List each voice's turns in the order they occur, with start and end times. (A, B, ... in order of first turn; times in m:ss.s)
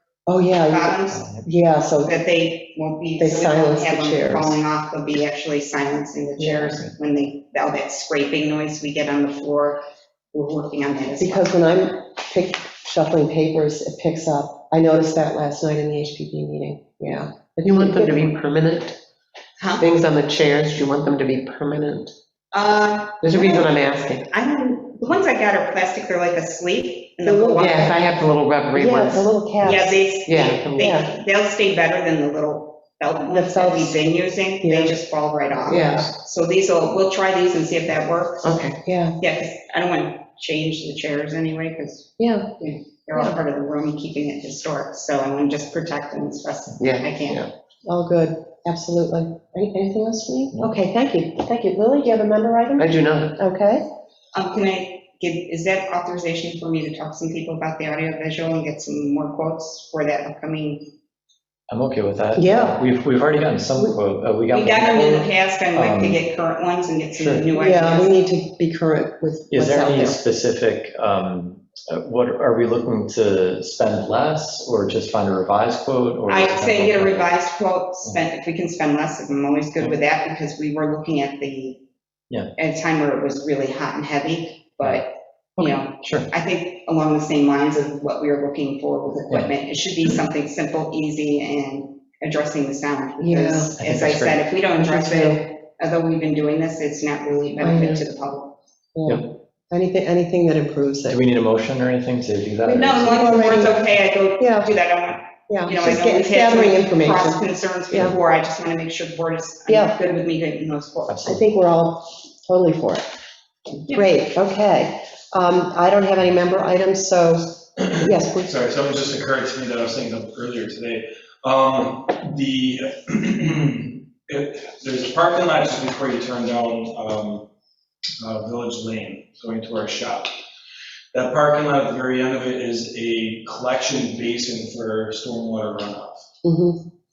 0:00.3-0:02.1 A
0:00.7-0:01.3 B
0:01.1-0:01.4 C
0:02.0-0:11.5 B
0:03.2-0:04.6 A
0:06.4-0:06.8 A
0:11.2-0:18.3 A
0:17.7-0:19.0 D
0:19.6-0:19.9 B
0:19.8-0:22.1 D
0:22.5-0:23.7 B
0:23.2-0:24.2 D
0:24.3-0:28.0 B
0:27.2-0:27.7 A
0:27.6-0:29.3 D
0:28.7-0:30.0 A
0:29.6-0:38.6 B
0:30.2-0:30.8 D
0:30.8-0:31.1 A
0:33.3-0:34.0 A
0:34.6-0:35.0 A
0:35.7-0:36.1 A
0:35.7-0:36.1 D
0:38.4-0:38.8 D
0:38.8-0:39.2 A
0:39.2-0:47.4 B
0:42.2-0:42.5 A
0:46.8-0:47.5 D
0:47.8-0:53.8 A
0:52.8-0:53.3 D
0:54.3-1:00.9 B
1:01.7-1:06.2 C
1:02.4-1:02.8 A
1:04.5-1:08.1 B
1:07.2-1:07.5 C
1:07.5-1:10.2 A
1:09.5-1:17.3 C
1:16.3-1:21.8 B
1:22.6-1:38.6 B
1:25.6-1:26.3 C
1:33.2-1:33.7 A
1:33.8-1:34.5 C
1:34.8-1:35.4 A
1:37.6-1:38.0 A
1:38.9-1:41.2 A
1:41.1-1:43.6 C
1:42.7-1:43.8 A
1:42.7-1:51.2 B
1:44.4-1:44.7 A
1:45.5-1:48.2 A
1:49.7-1:50.0 A
1:51.1-1:51.4 C
1:51.2-1:53.0 A
1:53.9-1:54.1 B
1:53.9-1:58.5 A
1:58.4-2:07.4 E
2:08.2-2:10.3 E
2:11.1-2:16.2 E
2:16.4-2:16.8 A